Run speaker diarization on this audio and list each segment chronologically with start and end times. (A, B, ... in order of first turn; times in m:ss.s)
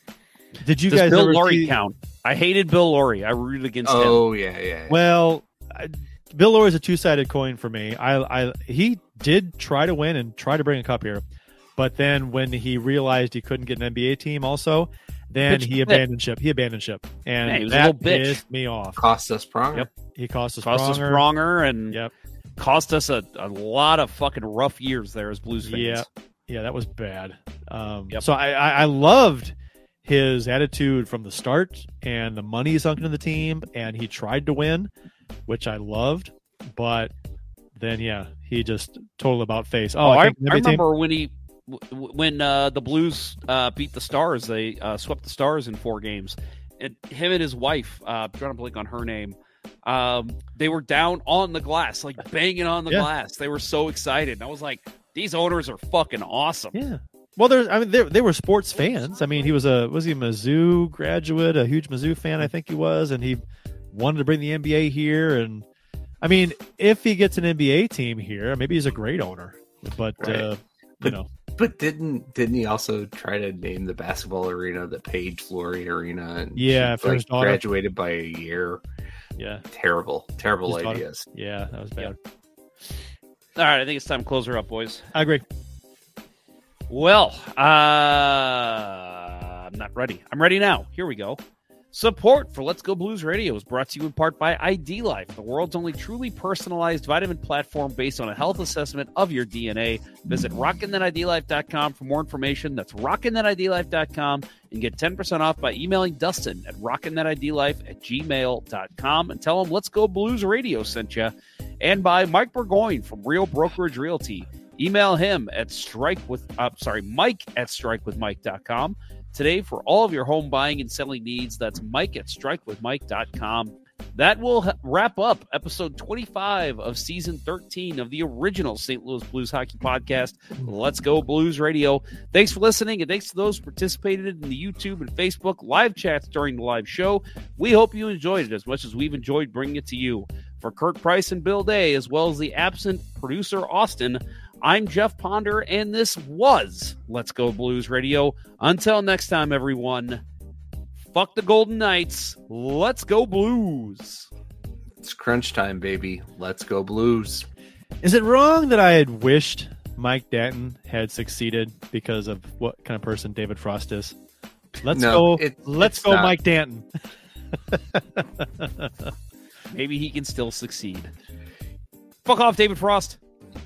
0:00.6-0:01.7 A
0:00.9-0:04.2 B
0:03.8-0:05.0 C
0:04.9-0:11.2 A
0:11.8-0:19.0 A
0:15.5-0:16.0 B
0:17.4-0:18.4 B
0:19.0-0:19.9 C
0:20.1-0:21.2 A
0:20.6-0:22.0 B
0:22.6-0:26.1 B
0:25.6-0:29.5 A
0:30.0-0:34.9 A
0:35.5-0:37.1 A
0:37.8-0:40.8 A
0:40.0-0:56.8 B
0:56.7-1:03.4 A
1:03.9-1:05.6 A
1:06.2-1:11.3 A
1:10.2-1:10.5 C
1:11.0-1:18.8 C
1:16.6-1:17.6 A
1:19.4-1:19.6 A
1:19.7-1:21.3 C
1:20.7-1:22.2 A
1:23.6-1:25.0 B
1:25.1-1:25.4 A
1:26.9-1:31.4 B
1:31.9-2:30.2 B
2:31.0-2:34.3 B
2:35.0-2:37.5 C
2:38.0-2:44.1 A
2:44.8-2:46.4 C
2:44.8-2:46.9 A
2:47.7-2:49.1 A
2:49.7-2:51.1 B
2:52.2-2:53.2 B